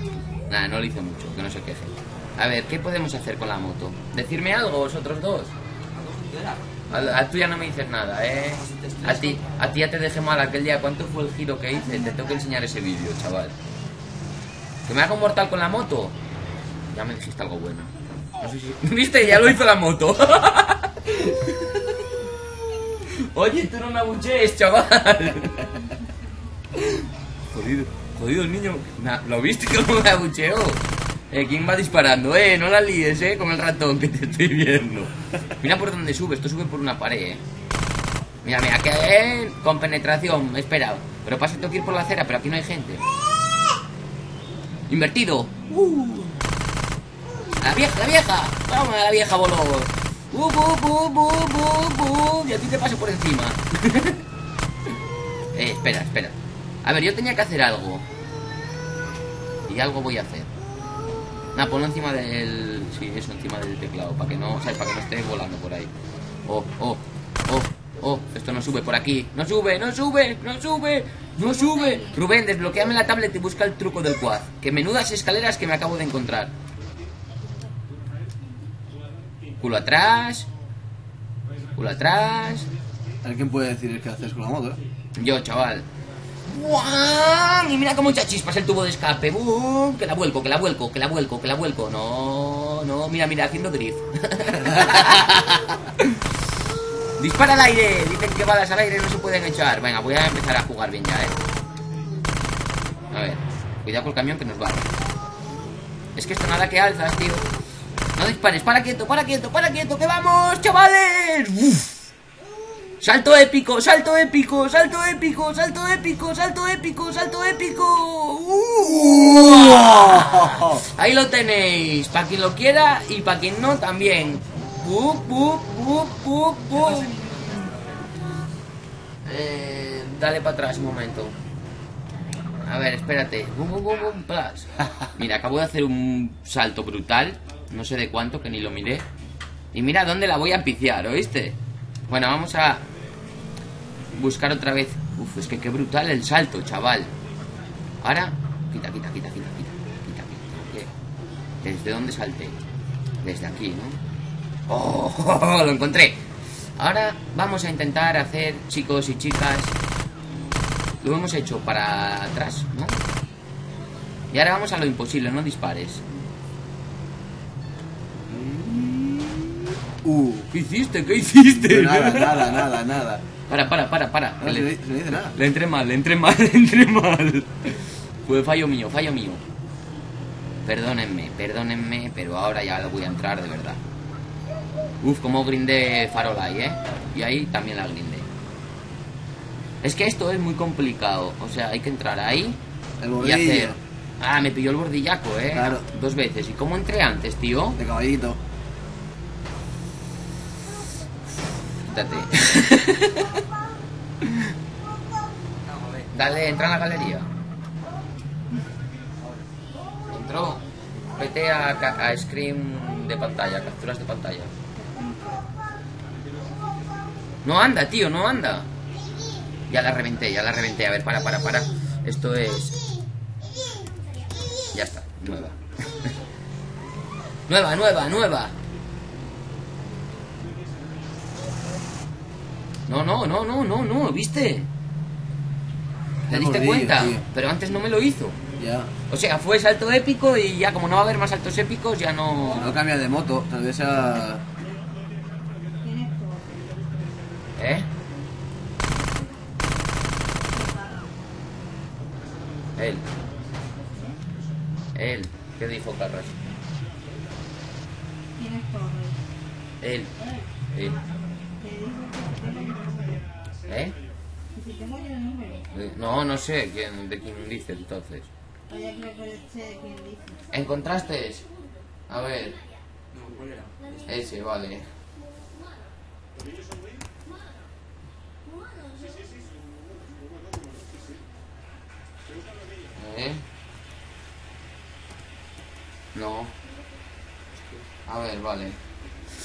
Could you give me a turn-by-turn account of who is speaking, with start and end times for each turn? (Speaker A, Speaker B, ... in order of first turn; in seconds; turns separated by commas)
Speaker A: 0.5-5.5, Speaker B: 5.9-6.9, Speaker A: 6.9-13.5, Speaker B: 8.6-9.5, Speaker A: 14.9-16.2, Speaker A: 16.9-21.8, Speaker A: 23.1-25.9, Speaker A: 26.8-37.4, Speaker A: 38.4-43.0, Speaker A: 44.9-46.5, Speaker A: 47.6-54.2, Speaker A: 55.5-58.1, Speaker A: 59.7-60.5, Speaker A: 61.5-65.9, Speaker A: 66.5-76.5, Speaker A: 79.6-80.5, Speaker A: 81.8-82.7, Speaker C: 83.2-84.8, Speaker A: 85.2-85.9, Speaker A: 86.5-96.2, Speaker A: 97.2-101.4, Speaker A: 103.1-104.9, Speaker A: 106.2-107.5, Speaker A: 108.2-112.0, Speaker A: 113.0-127.2, Speaker B: 126.8-128.1, Speaker A: 129.2-131.3, Speaker A: 132.6-139.1, Speaker A: 139.7-142.9, Speaker A: 144.1-147.1, Speaker A: 148.0-150.9, Speaker A: 151.6-152.6, Speaker A: 153.2-154.0, Speaker A: 154.7-156.2, Speaker A: 156.8-159.8, Speaker A: 161.0-163.0, Speaker A: 164.3-166.1, Speaker A: 168.3-169.6, Speaker C: 170.0-170.5, Speaker A: 170.5-172.8, Speaker C: 171.4-173.2, Speaker A: 173.5-174.7, Speaker C: 174.4-175.4, Speaker A: 175.2-179.4, Speaker A: 180.7-183.8, Speaker A: 185.0-188.3, Speaker A: 189.8-192.6, Speaker C: 193.0-193.8, Speaker A: 193.2-197.8, Speaker C: 195.5-195.8, Speaker C: 197.8-198.4, Speaker A: 201.9-203.4, Speaker A: 204.2-204.5, Speaker B: 205.7-206.1, Speaker A: 206.1-207.3, Speaker A: 210.1-214.5, Speaker D: 214.8-215.5, Speaker A: 217.4-218.7, Speaker A: 219.7-222.8, Speaker A: 224.7-226.1, Speaker A: 227.5-228.6, Speaker A: 232.9-234.7, Speaker C: 236.3-237.2, Speaker A: 236.3-238.4, Speaker C: 238.6-238.9, Speaker A: 239.1-242.8, Speaker C: 242.5-244.5, Speaker D: 245.8-246.9, Speaker A: 247.6-247.9, Speaker D: 250.5-251.2, Speaker A: 252.8-253.1, Speaker A: 254.9-256.4, Speaker D: 258.4-259.2, Speaker A: 259.8-260.1, Speaker A: 260.7-261.0, Speaker D: 261.6-263.3, Speaker A: 263.7-264.0, Speaker D: 264.5-265.7, Speaker A: 265.7-268.3, Speaker D: 268.7-270.4, Speaker A: 270.5-271.5, Speaker A: 272.1-272.6, Speaker B: 273.1-274.0, Speaker A: 274.1-274.9, Speaker A: 283.0-283.4, Speaker A: 286.1-286.6, Speaker A: 288.1-288.8